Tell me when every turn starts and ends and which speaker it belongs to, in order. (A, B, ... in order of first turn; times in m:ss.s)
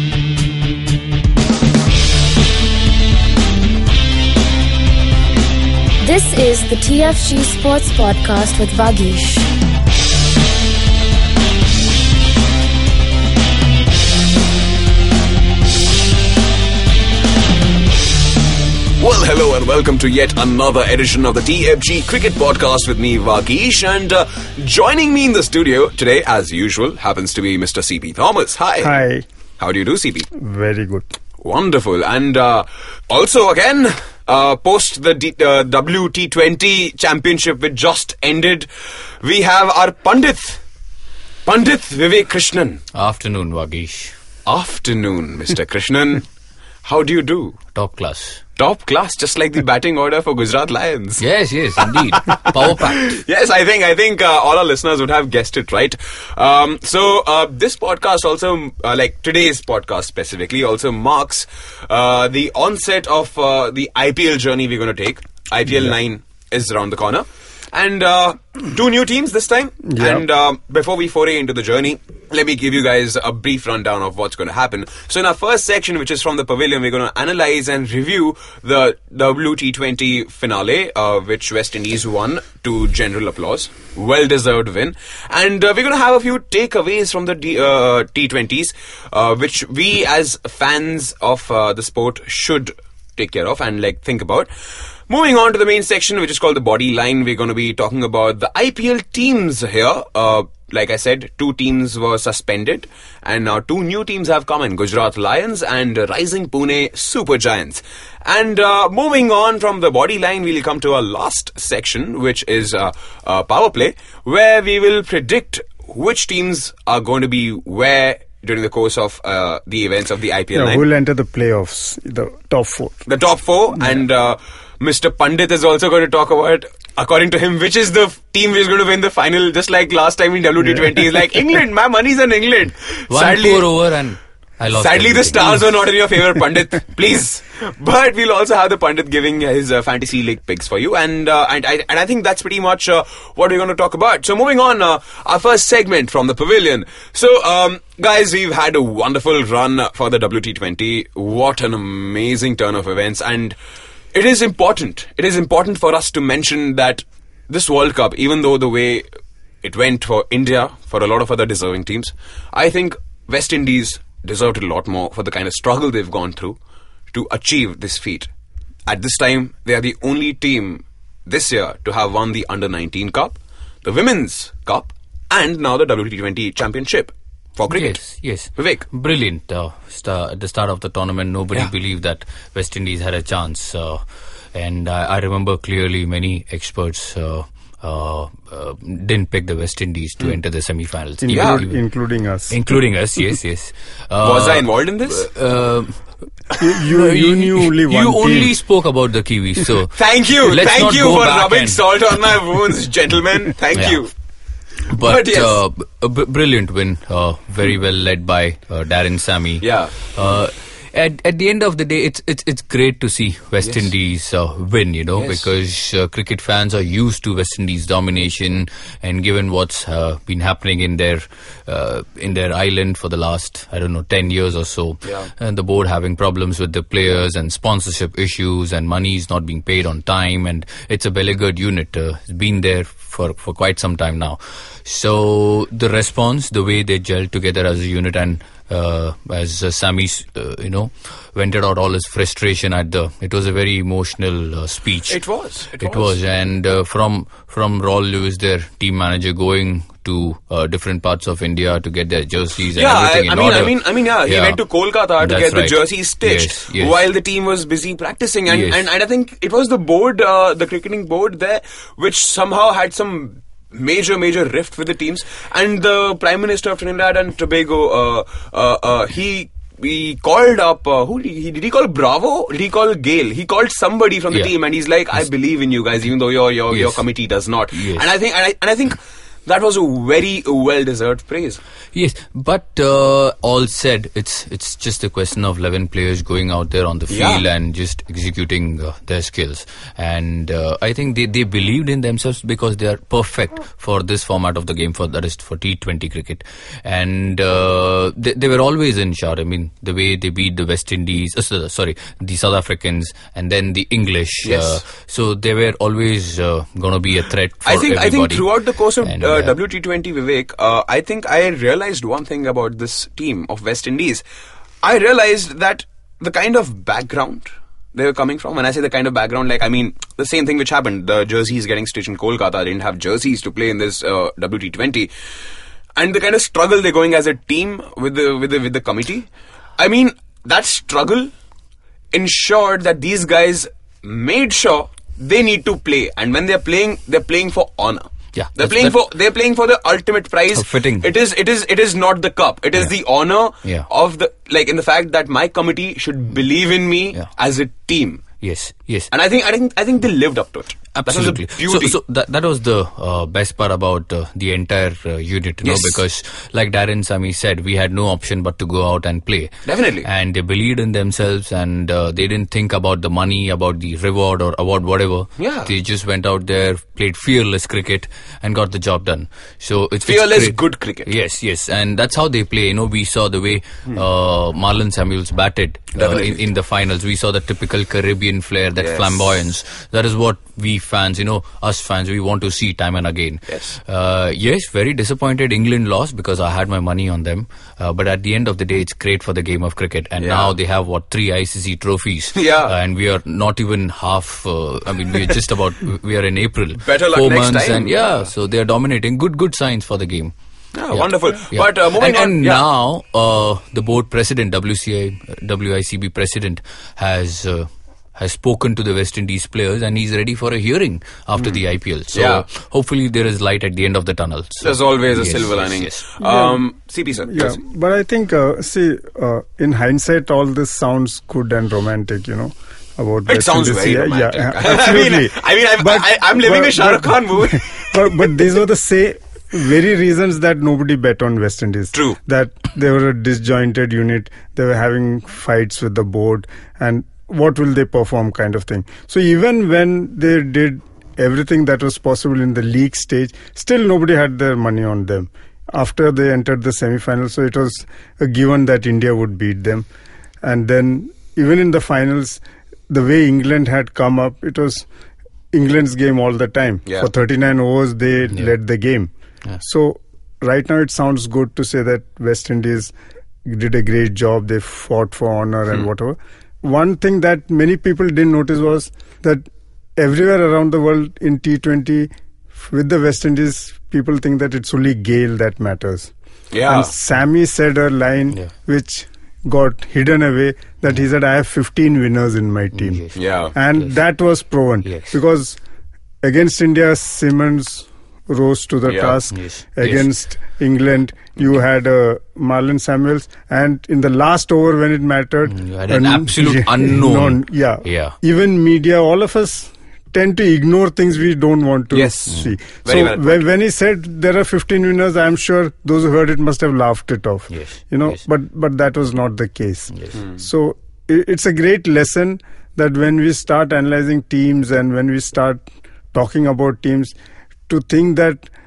0:06.0-0:09.5 A
0:19.0-0:28.9 B
0:28.8-0:29.2 C
0:29.6-0:30.3 B
0:30.4-0:31.1 C
0:31.4-0:38.7 B
0:39.2-0:40.6 B
0:41.4-0:42.8 B
0:42.9-0:44.1 D
0:44.4-0:46.2 B
0:46.8-0:47.6 B
0:47.7-0:48.4 D
0:48.6-0:51.2 B
0:51.2-0:53.2 D
0:51.8-1:34.5 B
1:09.9-1:10.2 C
1:35.1-2:00.8 B
2:00.5-2:03.0 C
2:03.1-2:13.7 B
2:10.7-2:11.2 C
2:13.1-2:15.6 D
2:14.7-2:33.6 B
2:34.1-2:39.0 B
2:39.6-2:46.6 B
2:47.1-2:48.3 B
2:48.9-2:58.0 B
2:57.7-3:04.0 D
2:58.6-2:58.9 B
3:04.5-3:11.8 D
3:11.2-3:12.6 C
3:11.3-3:11.6 B
3:12.5-3:16.0 D
3:14.2-3:15.3 B
3:16.6-3:18.6 C
3:16.8-3:21.8 D
3:19.9-3:24.1 B
3:24.9-4:05.2 D
3:25.0-3:25.6 B
3:29.6-3:30.3 B
3:35.2-3:35.5 B
3:45.0-3:45.3 B
4:05.1-4:06.2 B
4:05.8-4:14.6 D
4:12.7-4:41.6 B
4:15.2-4:17.0 D
4:18.5-4:18.8 D
4:36.7-4:37.0 D
4:37.7-4:38.0 D
4:41.9-5:08.5 D
4:47.1-4:47.4 B
5:04.4-5:04.8 B
5:07.6-5:14.2 B
5:09.0-5:09.5 D
5:14.8-5:25.1 B
5:26.0-5:29.2 B
5:29.8-5:31.3 B
5:32.1-5:48.2 B
5:38.3-5:39.0 D
5:40.5-5:41.1 D
5:48.4-5:49.1 D
5:49.1-5:52.0 B
5:50.9-6:40.3 D
5:55.6-5:56.0 B
5:59.6-6:00.1 B
6:05.4-6:05.7 B
6:10.0-6:11.1 B
6:16.0-6:16.4 B
6:18.8-6:19.3 B
6:23.5-6:23.8 B
6:30.2-6:30.5 B
6:32.3-6:32.8 B
6:36.8-6:38.1 B
6:40.7-6:42.6 B
6:40.9-6:56.0 D
6:52.1-6:52.4 B
6:54.6-6:57.6 B
6:56.2-6:56.6 C
6:57.2-7:29.9 C
7:03.3-7:08.3 B
7:30.4-7:34.9 C
7:35.5-7:42.9 C
7:43.4-7:56.1 C
7:56.5-7:56.9 B
7:56.6-8:05.6 C
8:02.7-8:03.2 D
8:03.2-8:03.5 B
8:04.8-8:05.2 D
8:06.2-8:37.1 C
8:08.8-8:09.2 B
8:09.3-8:10.1 D
8:15.5-8:18.2 D
8:21.9-8:23.4 B
8:27.5-8:28.2 D
8:37.7-8:38.5 C